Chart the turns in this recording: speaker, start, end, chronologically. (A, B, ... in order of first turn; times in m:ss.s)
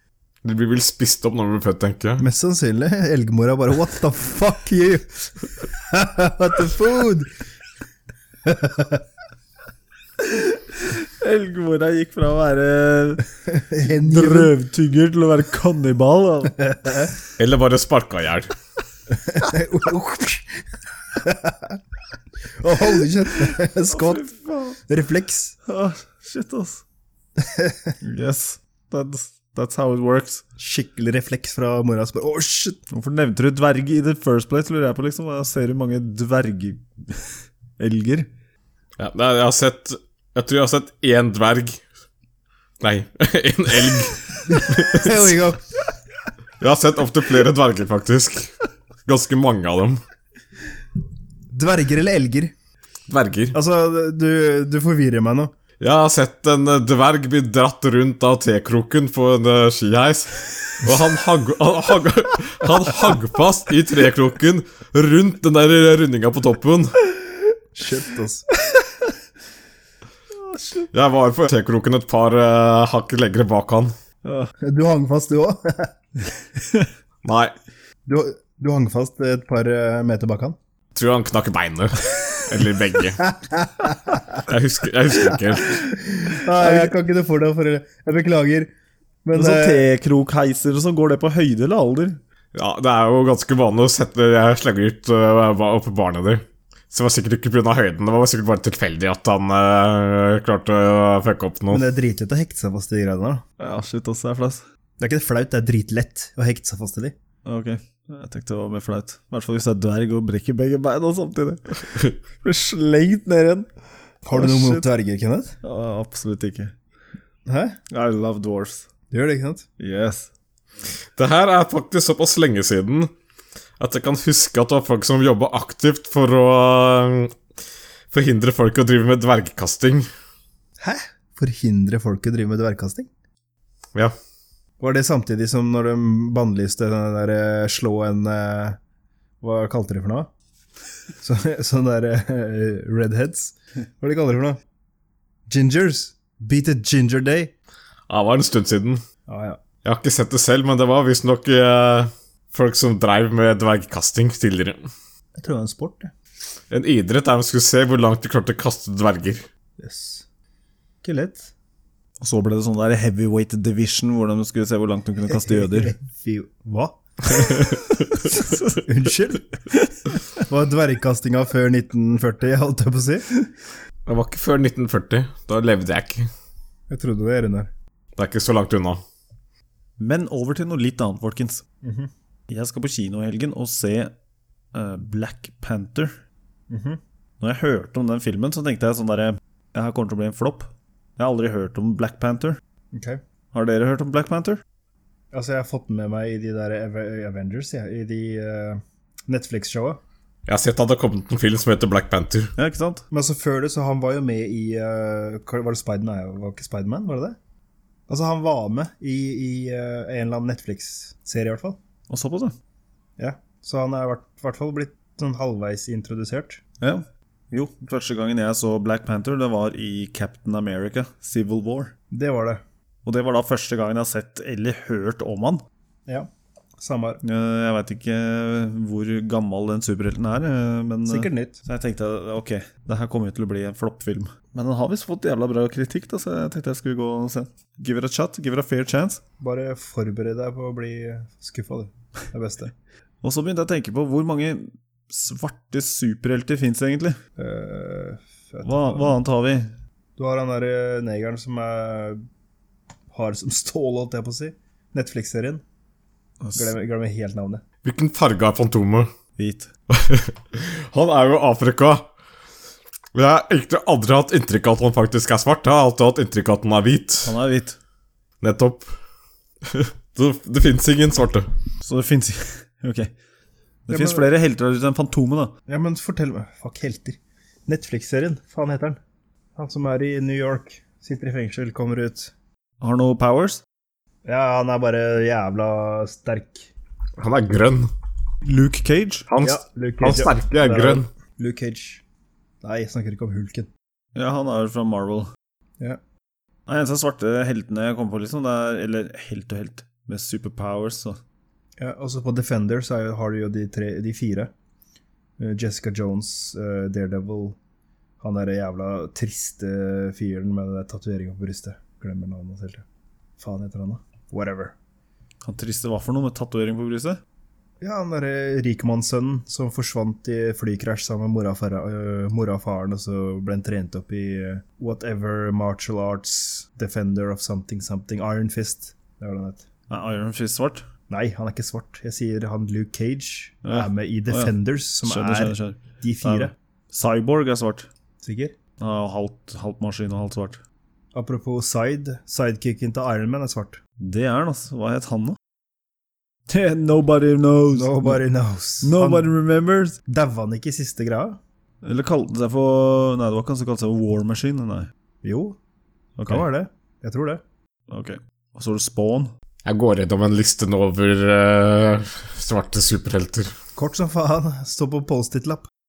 0:00.4-0:02.2 A
0:02.2-0:07.3 B
0:08.4-0:09.0 B
0:10.2-0:13.3 C
0:13.5-0:14.5 B
0:13.8-0:16.6 C
0:16.6-0:17.1 B
0:17.4-0:18.5 A
0:19.1-0:21.8 B
0:22.6-0:24.3 B
0:23.4-0:24.8 C
0:24.9-0:25.6 B
0:25.6-0:26.8 C
0:27.4-0:27.8 B
0:28.0-0:30.4 C
0:30.6-0:32.8 B
0:32.9-0:38.3 C
0:39.0-0:41.8 A
0:42.8-0:45.4 A
0:44.5-0:45.6 B
0:46.6-0:48.5 A
0:49.1-0:50.0 A
0:51.5-0:52.5 B
0:53.1-0:53.6 A
0:53.5-0:55.5 B
0:55.8-1:07.0 A
1:07.7-1:08.5 B
1:10.4-1:10.9 C
1:10.9-1:13.9 A
1:14.2-1:14.5 C
1:14.6-1:15.9 B
1:17.2-1:17.5 A
1:18.1-1:20.6 B
1:21.0-1:23.3 A
1:23.3-1:24.4 B
1:24.4-1:25.9 A
1:26.2-1:28.7 B
1:26.6-1:26.9 C
1:29.2-1:29.8 B
1:29.3-1:32.2 C
1:32.6-1:41.8 A
1:41.7-1:43.4 B
1:43.6-1:44.6 C
1:45.0-1:47.2 B
1:47.4-1:53.7 C
1:54.2-1:55.5 B
1:54.3-1:54.8 C
1:55.6-1:56.7 C
1:57.5-1:57.8 B
1:57.9-1:58.9 C
1:59.1-1:59.6 B
1:59.8-2:00.3 C
2:01.2-2:03.1 A
2:03.8-2:07.4 A
2:08.1-2:10.1 A
2:10.8-2:13.1 B
2:14.8-2:18.8 B
2:19.4-2:20.3 B
2:21.2-2:24.6 B
2:25.5-2:27.5 B
2:28.1-2:29.0 A
2:29.3-2:29.6 B
2:29.8-2:34.8 A
2:35.4-2:36.1 B
2:36.7-2:39.5 A
2:39.8-2:40.3 B
2:41.0-2:41.5 B
2:42.2-2:46.0 C
2:45.3-2:47.4 B
2:47.6-2:47.9 A
2:48.3-2:49.5 B
2:50.4-2:53.4 B
2:54.1-2:56.3 A
2:56.9-2:57.7 B
2:58.2-2:59.0 A
3:00.0-3:01.6 C
3:01.8-3:02.1 B
3:02.5-3:04.1 C
3:04.7-3:06.2 C
3:06.7-3:07.0 B
3:07.4-3:12.6 C
3:12.9-3:13.2 B
3:13.5-3:14.6 C
3:15.3-3:20.0 B
3:20.5-3:22.5 A
3:22.6-3:23.0 C
3:23.1-3:27.4 B
3:28.1-3:31.8 B
3:32.1-3:32.6 C
3:33.2-3:36.6 B
3:36.8-3:41.9 C
3:42.1-3:42.6 B
3:43.0-3:45.6 C
3:46.1-3:47.2 B
3:47.2-3:59.2 C
3:51.1-3:51.6 B
3:59.4-4:02.7 B
4:03.2-4:07.2 C
4:07.4-4:09.2 B
4:08.6-4:09.7 C
4:10.2-4:12.2 B
4:13.1-4:15.6 B
4:16.4-4:16.7 C
4:16.6-4:17.6 B
4:17.8-4:19.1 A
4:19.4-4:19.7 C
4:19.9-4:22.1 A
4:23.2-4:27.3 A
4:27.2-4:27.8 C
4:28.4-4:28.9 A
4:29.7-4:31.5 A
4:31.8-4:33.1 C
4:33.9-4:35.5 C
4:33.9-4:34.3 B
4:35.7-4:39.0 B
4:39.6-4:42.3 B
4:42.8-4:43.6 C
4:44.2-4:46.7 B
4:47.2-4:47.9 A
4:48.4-4:49.3 C
4:49.3-4:51.1 A
4:49.4-4:52.0 B
4:52.6-4:53.7 B
4:54.2-4:55.3 C
4:56.7-5:01.2 C
5:01.8-5:04.5 B
5:05.4-5:07.6 B
5:08.2-5:12.8 B
5:13.4-5:14.8 B
5:15.4-5:17.2 C
5:17.8-5:29.7 B
5:29.9-5:30.9 C
5:31.1-5:36.5 B
5:33.6-5:37.9 C
5:38.2-5:38.6 B
5:38.8-5:40.6 C
5:41.1-5:43.8 B
5:44.0-5:45.4 C
5:46.5-5:48.2 C
5:47.7-5:49.3 B
5:48.8-5:50.0 C
5:50.1-5:51.4 B
5:51.8-5:54.9 C
5:55.2-5:55.6 B
5:56.2-5:56.4 C
5:56.3-5:57.4 B
5:57.9-5:59.3 C
5:59.6-6:03.5 A
6:03.8-6:05.7 B